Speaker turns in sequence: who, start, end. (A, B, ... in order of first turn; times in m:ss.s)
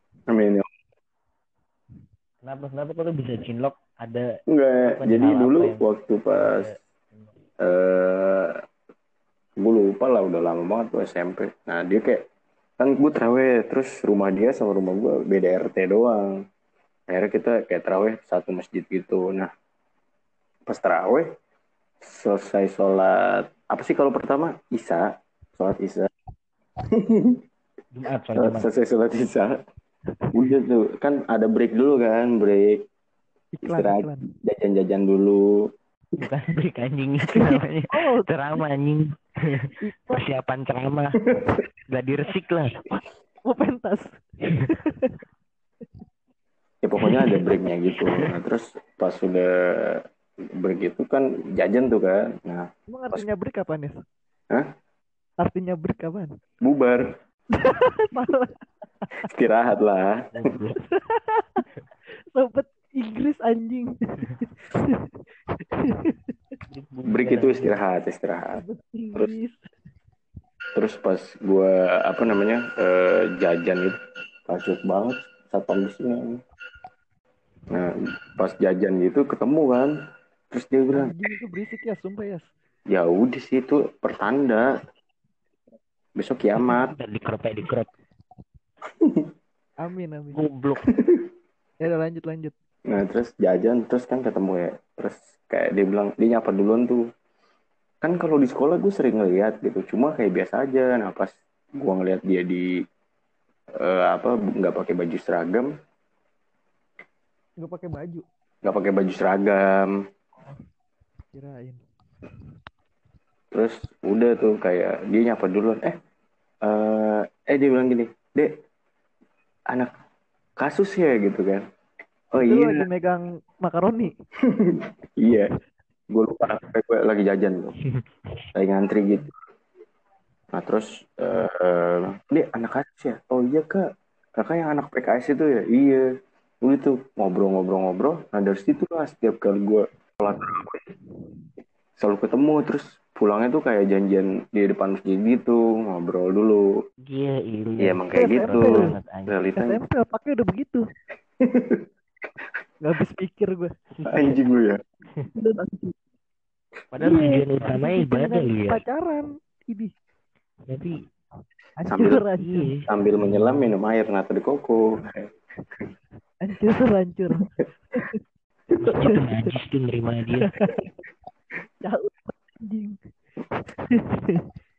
0:00.3-0:00.7 A
0:02.4-0:04.3 B
0:04.5-0:06.7 A
0:04.8-0:07.3 B
0:07.6-0:08.6 A
0:09.6-0:12.2 A
0:12.8-0:16.4 A
0:17.1-0:19.5 A
0:20.7-0:21.3 A
0:22.0-0:26.1 A
0:26.9-0:27.4 A
0:27.9-0:28.7 B
0:28.3-0:29.6 A
0:30.3-0:32.8 A
0:33.5-0:34.2 C
0:33.6-0:35.7 A
0:36.2-0:41.2 B
0:37.3-0:38.3 C
0:39.8-0:40.2 C
0:41.3-0:41.6 A
0:41.9-0:42.8 B
0:43.5-0:45.1 C
0:46.8-0:50.0 A
0:47.0-0:47.4 B
0:50.6-0:53.2 A
0:52.9-0:54.0 C
0:55.4-0:56.3 C
0:56.6-0:57.1 A
0:57.6-0:58.6 C
0:59.2-1:00.3 A
1:00.3-1:00.8 B
1:00.8-1:01.6 C
1:02.3-1:05.0 C
1:05.8-1:06.1 C
1:06.7-1:07.7 B
1:07.0-1:08.6 A
1:08.5-1:09.6 C
1:10.7-1:16.4 A
1:17.7-1:19.9 A
1:20.5-1:21.2 A
1:20.9-1:22.5 C
1:22.9-1:24.7 A
1:26.2-1:26.9 A
1:26.6-1:27.9 B
1:29.0-1:29.3 A
1:29.8-1:30.4 C
1:30.3-1:30.9 B
1:30.9-1:31.3 A
1:31.8-1:32.5 C
1:32.8-1:37.1 A
1:38.0-1:42.7 A
1:43.7-1:45.7 A
1:47.6-1:48.2 C
1:48.6-1:50.0 A
1:51.3-1:51.8 C
1:53.5-1:56.0 A
1:56.6-1:58.5 A
2:00.6-2:01.6 A
2:02.3-2:02.9 A
2:02.4-2:04.1 C
2:04.4-2:05.5 A
2:06.1-2:07.7 A
2:07.9-2:08.4 B
2:08.5-2:09.3 A
2:10.5-2:13.8 A
2:14.4-2:16.0 A
2:16.6-2:20.8 A
2:22.0-2:26.6 A
2:27.0-2:29.3 B
2:27.8-2:29.8 A
2:28.1-2:28.8 C
2:29.6-2:30.8 C
2:31.4-2:31.8 A
2:32.8-2:33.7 C
2:34.0-2:34.3 B
2:34.1-2:34.8 A
2:35.3-2:35.9 C
2:36.9-2:38.8 B
2:37.0-2:39.9 C
2:40.7-2:41.0 B
2:41.8-2:42.7 C
2:41.9-2:42.2 A
2:42.4-2:43.7 B
2:42.9-2:45.3 A
2:46.4-2:47.5 C
2:48.8-2:50.5 B
2:48.9-2:49.2 C
2:50.4-2:50.7 C
2:51.8-2:53.0 C
2:53.9-2:54.4 C